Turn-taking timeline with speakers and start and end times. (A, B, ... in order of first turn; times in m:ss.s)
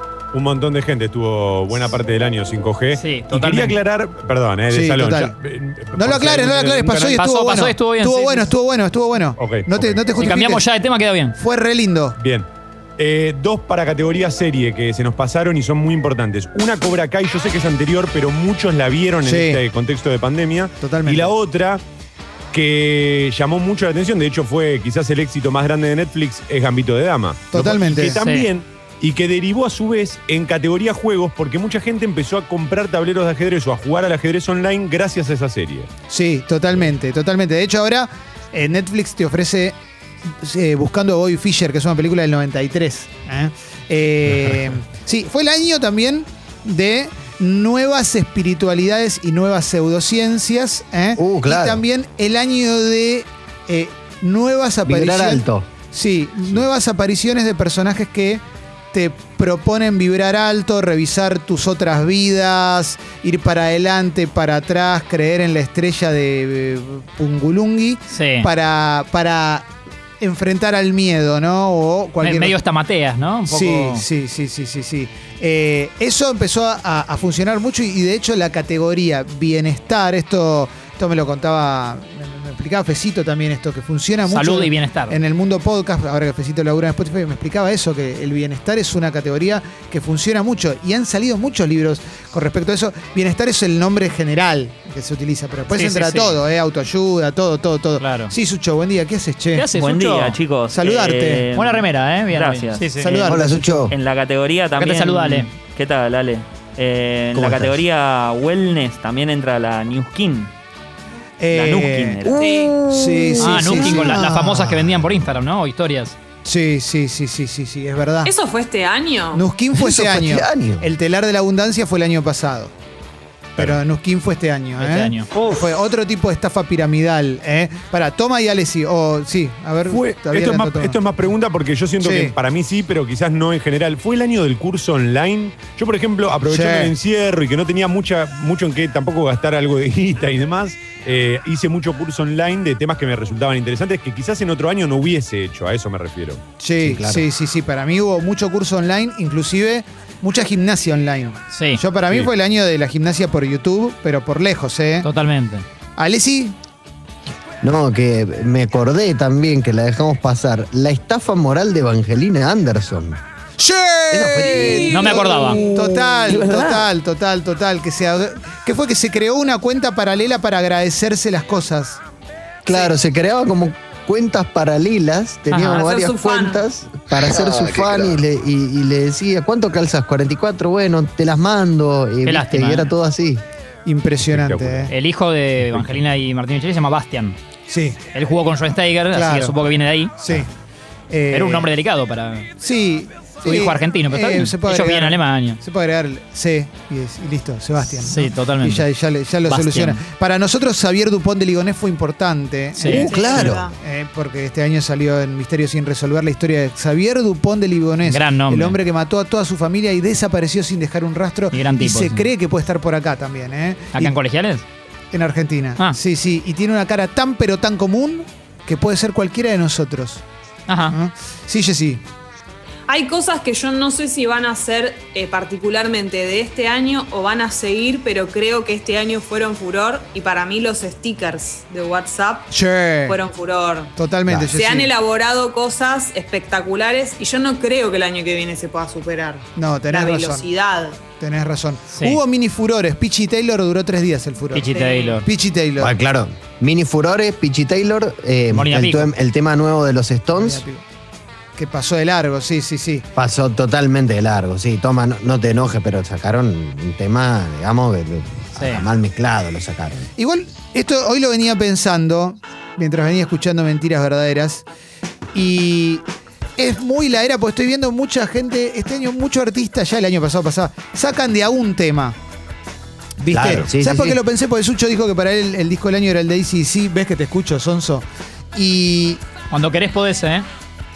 0:00.3-0:07.2 A
0:03.0-0:03.8 B
0:04.7-0:05.4 C
0:05.9-0:10.6 C
0:07.1-0:08.5 B
0:09.4-0:10.0 A
0:10.2-0:11.4 B
0:11.4-0:12.2 C
0:12.2-0:12.5 A
0:13.0-0:21.8 A
0:19.2-0:19.6 C
0:20.8-0:21.3 C
0:22.5-0:35.9 A
0:27.5-0:28.2 C
0:28.2-0:28.5 B
0:36.1-0:39.8 C
0:40.4-1:09.7 C
0:51.2-0:51.8 D
0:54.8-0:55.7 D
1:08.1-1:08.5 B
1:10.2-1:12.6 C
1:12.2-1:14.0 B
1:13.5-1:39.7 C
1:24.3-1:25.2 B
1:35.7-1:36.4 B
1:38.0-1:38.3 B
1:39.5-1:40.4 B
1:39.8-1:50.5 E
1:40.7-1:41.5 C
1:41.5-1:43.3 B
1:43.0-1:43.7 C
1:43.3-1:43.9 D
1:44.8-1:45.5 B
1:47.3-1:47.8 D
1:51.4-1:52.2 C
1:51.5-1:52.5 E
1:52.2-1:54.3 D
1:52.4-1:52.8 F
1:52.9-1:54.8 C
1:53.4-1:56.2 B
1:56.4-1:58.3 C
1:58.2-1:59.4 F
1:59.3-2:02.7 C
1:59.7-2:00.9 D
2:03.6-2:11.0 C
2:04.8-2:05.3 B
2:09.9-2:26.4 A
2:12.0-2:12.3 C
2:16.5-2:16.9 C
2:26.6-2:35.1 C
2:26.8-2:27.3 D
2:31.5-2:31.8 B
2:35.0-2:35.6 B
2:36.0-2:36.6 C
2:37.6-2:43.2 D
2:43.6-2:52.0 C
2:44.1-2:46.6 D
2:44.4-2:45.7 F
2:44.9-2:45.6 B
2:52.7-3:03.4 D
2:55.5-2:55.9 B
2:55.7-2:56.6 F
3:02.2-3:02.9 B
3:03.8-3:04.9 C
3:04.3-3:04.9 A
3:04.9-3:07.4 B
3:07.7-3:08.0 C
3:08.1-3:10.1 B
3:09.1-3:09.6 C
3:10.2-3:10.5 C
3:11.1-3:11.7 C
3:11.3-3:12.5 B
3:12.6-3:34.2 C
3:13.4-3:15.6 B
3:18.0-3:18.8 B
3:19.5-3:20.0 B
3:22.8-3:23.1 B
3:22.8-3:23.7 D
3:22.9-3:23.8 F
3:28.1-3:28.8 B
3:31.5-3:32.3 B
3:34.0-3:34.6 B
3:35.1-3:40.2 C
3:40.7-3:41.0 B
3:40.9-3:42.0 C
3:42.9-3:52.5 F
3:52.5-3:53.2 C
3:53.1-3:53.9 F
3:54.0-3:54.9 C
3:54.3-3:54.6 D
3:54.5-4:01.0 F
3:59.6-4:00.5 C
4:01.2-4:05.9 C
4:02.0-4:02.2 B
4:04.5-4:05.3 B
4:04.7-4:05.2 F
4:05.8-4:10.6 D
4:08.5-4:09.1 B
4:10.3-4:10.8 C
4:11.6-4:13.0 C
4:13.2-4:20.1 D
4:18.6-4:18.8 B
4:20.2-4:24.6 C
4:25.3-4:26.0 C
4:26.6-4:32.2 C
4:33.2-4:39.2 C
4:33.3-4:34.2 D
4:33.4-4:33.7 A
4:39.5-4:40.5 B